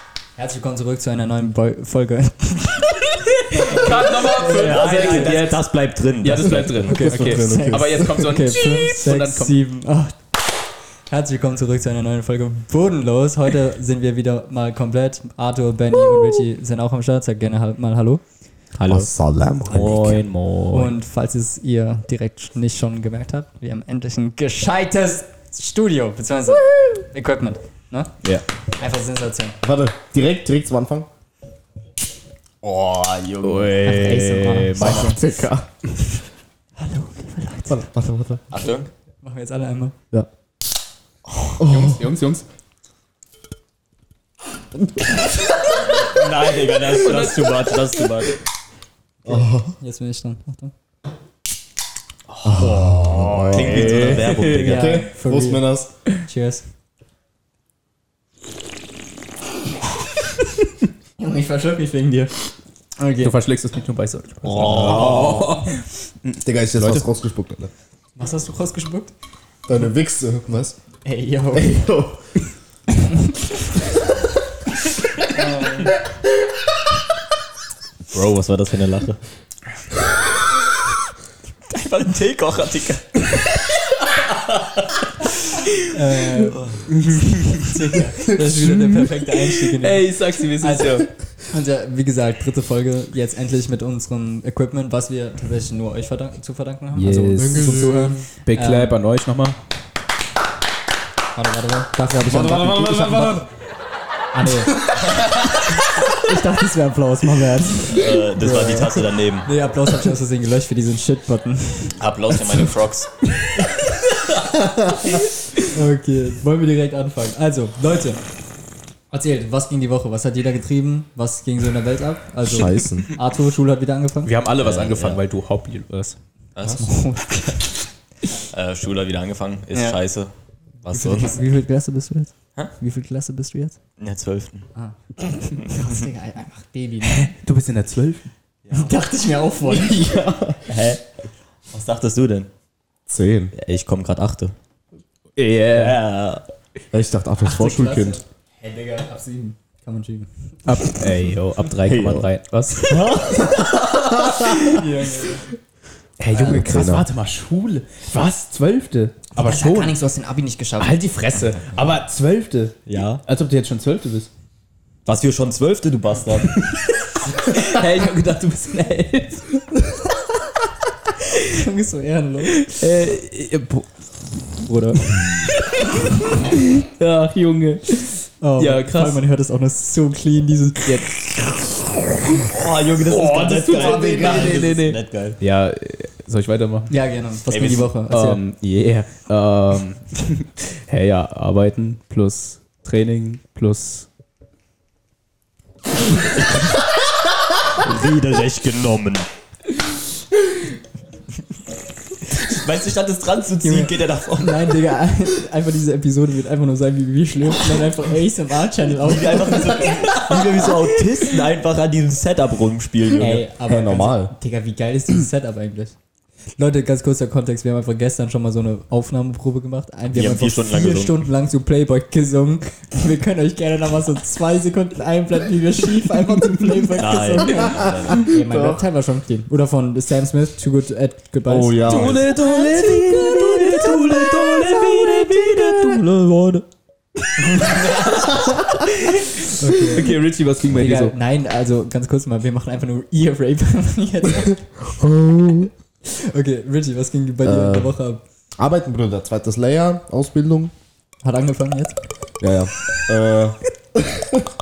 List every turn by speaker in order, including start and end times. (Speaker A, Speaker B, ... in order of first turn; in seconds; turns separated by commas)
Speaker A: 0.4-5.4, Speaker B: 3.0-5.6, Speaker C: 4.3-7.0, Speaker B: 6.2-9.6, Speaker A: 6.8-10.5, Speaker D: 6.9-8.2, Speaker A: 11.1-18.2, Speaker C: 18.8-19.1, Speaker D: 18.9-20.0, Speaker B: 19.7-21.0, Speaker A: 20.7-28.2, Speaker A: 28.7-29.6, Speaker D: 29.6-31.1, Speaker C: 32.6-33.8, Speaker B: 33.4-35.2, Speaker A: 33.8-35.2, Speaker D: 34.8-35.7, Speaker A: 36.8-37.9, Speaker D: 37.7-38.4, Speaker C: 38.5-38.9, Speaker A: 39.2-40.0, Speaker D: 41.6-42.0, Speaker B: 41.6-42.5, Speaker C: 45.8-48.4, Speaker B: 46.9-48.1, Speaker D: 49.2-49.8, Speaker A: 49.3-50.7, Speaker B: 52.3-54.9, Speaker D: 52.4-55.9, Speaker C: 53.4-54.9, Speaker A: 54.5-55.6, Speaker A: 56.1-56.7, Speaker A: 61.2-62.3, Speaker A: 63.0-63.4, Speaker B: 63.2-67.0, Speaker C: 64.4-65.6, Speaker A: 64.9-65.5, Speaker D: 65.0-65.2, Speaker D: 66.4-67.7, Speaker A: 68.2-69.1, Speaker D: 69.7-70.8, Speaker A: 71.0-71.8, Speaker D: 71.5-72.2, Speaker A: 73.0-73.7, Speaker A: 75.3-75.9, Speaker C: 78.1-79.2, Speaker C: 81.7-83.3, Speaker A: 85.8-98.9, Speaker C: 86.5-86.8, Speaker B: 86.9-87.8, Speaker B: 88.5-91.1, Speaker B: 96.9-97.8, Speaker D: 97.4-98.2, Speaker B: 98.5-99.6, Speaker A: 101.3-103.5, Speaker D: 102.2-103.5, Speaker A: 104.3-104.9, Speaker D: 104.7-105.0, Speaker C: 105.1-105.5, Speaker A: 105.8-108.3, Speaker C: 107.9-109.5, Speaker D: 108.4-109.1, Speaker A: 109.4-112.7, Speaker C: 111.9-113.1, Speaker D: 114.7-115.0, Speaker A: 115.1-118.2, Speaker A: 119.1-124.3, Speaker D: 122.4-123.1, Speaker B: 124.2-126.2, Speaker C: 124.6-125.2, Speaker C: 126.6-126.9, Speaker A: 126.7-127.8, Speaker C: 128.5-131.5, Speaker A: 130.9-133.8, Speaker C: 134.0-134.7, Speaker A: 134.8-137.3, Speaker B: 137.1-138.3, Speaker C: 138.7-138.9, Speaker A: 138.7-140.1, Speaker D: 139.7-140.6, Speaker C: 140.7-141.0, Speaker C: 141.7-142.5, Speaker D: 143.1-143.5, Speaker C: 143.5-144.6, Speaker B: 145.4-146.0, Speaker C: 145.7-146.4, Speaker D: 146.9-148.2, Speaker A: 147.4-150.9, Speaker B: 150.7-153.0, Speaker C: 151.9-152.2, Speaker C: 152.8-154.2, Speaker D: 152.9-154.7, Speaker A: 154.6-155.5, Speaker B: 156.2-159.9, Speaker D: 156.3-157.1, Speaker A: 156.4-156.7, Speaker A: 159.4-161.0, Speaker B: 160.8-164.3, Speaker C: 162.9-163.2, Speaker C: 165.1-166.6, Speaker B: 166.4-169.7, Speaker A: 171.3-172.8, Speaker B: 172.6-173.9, Speaker A: 174.7-175.1, Speaker B: 175.1-179.2, Speaker A: 178.4-181.1, Speaker B: 180.8-181.2, Speaker B: 182.2-186.9, Speaker C: 182.3-185.4, Speaker D: 183.7-184.7, Speaker A: 186.9-188.4, Speaker C: 187.5-187.9, Speaker B: 188.1-194.1, Speaker C: 197.7-199.3, Speaker C: 202.4-204.7, Speaker A: 203.6-210.6, Speaker C: 209.0-213.4, Speaker A: 213.2-215.9, Speaker D: 213.6-214.3, Speaker A: 216.6-234.9, Speaker C: 220.1-221.2, Speaker C: 227.0-228.2, Speaker D: 227.6-228.8, Speaker D: 231.5-232.2, Speaker B: 231.8-236.1, Speaker C: 232.2-236.6, Speaker B: 237.3-241.2, Speaker A: 237.5-238.4, Speaker A: 239.4-240.1, Speaker A: 240.7-244.7, Speaker D: 244.9-245.7, Speaker A: 246.1-248.2, Speaker D: 247.4-247.9, Speaker D: 248.6-250.7, Speaker A: 251.2-252.0, Speaker D: 252.4-254.5